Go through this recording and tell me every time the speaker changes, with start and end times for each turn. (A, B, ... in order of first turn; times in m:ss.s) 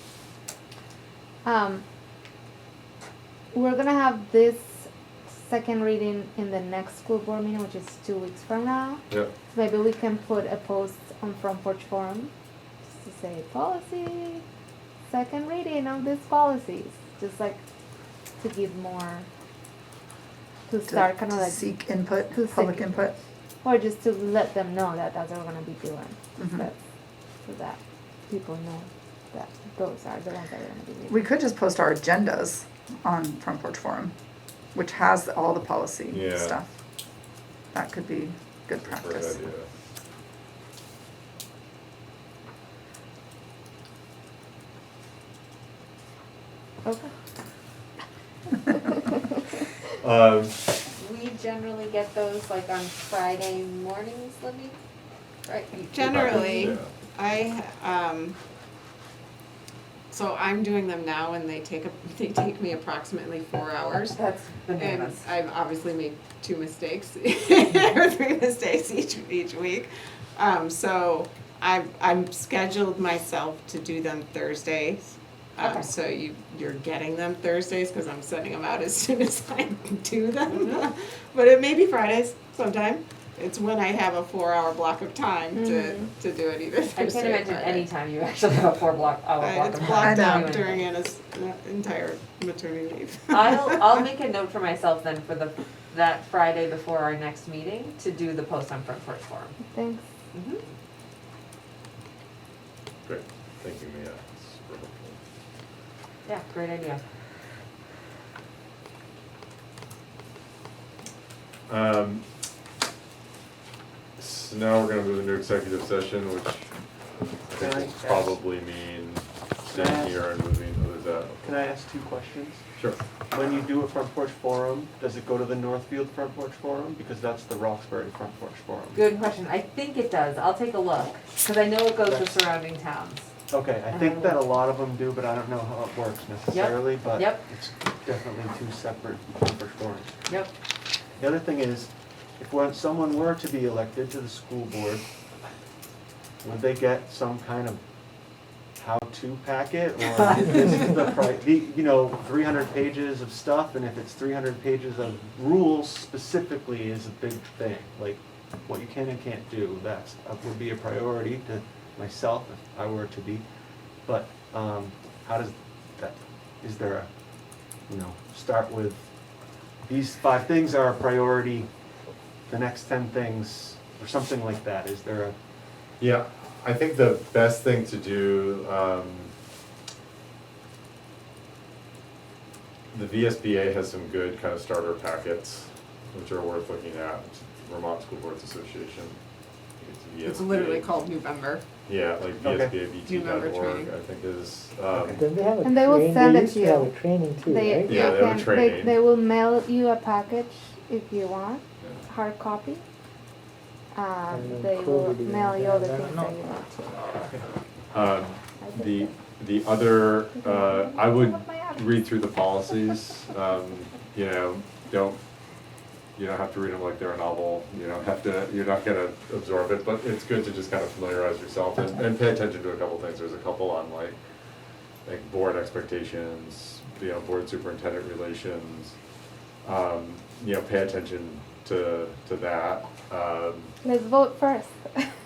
0:01.4-0:01.8 A
0:03.5-0:12.3 A
0:12.9-0:14.4 A
0:15.1-0:17.6 A
0:18.4-0:19.3 A
0:20.7-0:23.1 A
0:20.9-0:23.1 B
0:23.6-0:26.8 A
0:26.4-0:26.7 B
0:27.4-0:31.2 A
0:31.1-0:34.1 B
0:34.7-0:36.7 B
0:36.1-0:36.6 C
0:37.7-0:39.4 B
0:38.9-0:39.7 C
0:46.8-0:47.1 A
0:50.0-0:50.6 C
0:51.0-0:54.8 D
0:55.5-0:56.7 D
0:55.9-0:58.4 E
0:56.1-0:56.9 C
1:00.1-1:04.2 E
1:04.1-1:05.2 D
1:04.8-1:27.9 E
1:15.6-1:15.9 D
1:25.6-1:26.1 A
1:27.0-1:30.8 D
1:29.4-1:34.0 E
1:30.0-1:30.5 B
1:33.3-1:39.6 D
1:39.7-1:40.1 A
1:40.3-1:40.6 D
1:43.0-1:45.2 C
1:46.3-1:47.0 D
1:51.7-1:52.2 C
1:54.2-1:56.7 C
1:57.5-2:01.6 C
1:57.5-1:58.4 F
1:59.6-2:00.3 F
2:01.4-2:02.6 F
2:02.8-2:03.0 C
2:03.3-2:09.0 F
2:08.9-2:13.3 D
2:12.0-2:12.4 F
2:13.5-2:20.1 F
2:13.9-2:14.4 D
2:16.5-2:17.4 D
2:21.2-2:25.1 F
2:26.4-2:27.8 F
2:28.8-2:43.4 F
2:44.0-2:47.1 F
2:47.9-2:49.1 F
2:49.8-2:51.7 F
2:52.5-2:55.4 F
2:56.0-2:59.3 C
3:02.9-3:09.2 C
3:09.8-3:10.9 C
3:10.2-3:11.6 E
3:11.9-3:15.2 C
3:12.4-3:12.8 F
3:12.9-3:13.9 E
3:15.2-3:18.4 G
3:15.6-3:22.8 A
3:17.9-3:18.2 E
3:17.9-3:19.0 C
3:21.8-3:22.0 C
3:23.9-3:27.0 A
3:24.3-3:26.3 G
3:27.9-3:35.2 C
3:28.6-3:29.2 A
3:30.3-3:31.9 A
3:36.2-3:44.2 C
3:45.0-3:49.0 C
3:49.6-3:53.7 C
3:53.8-3:55.1 A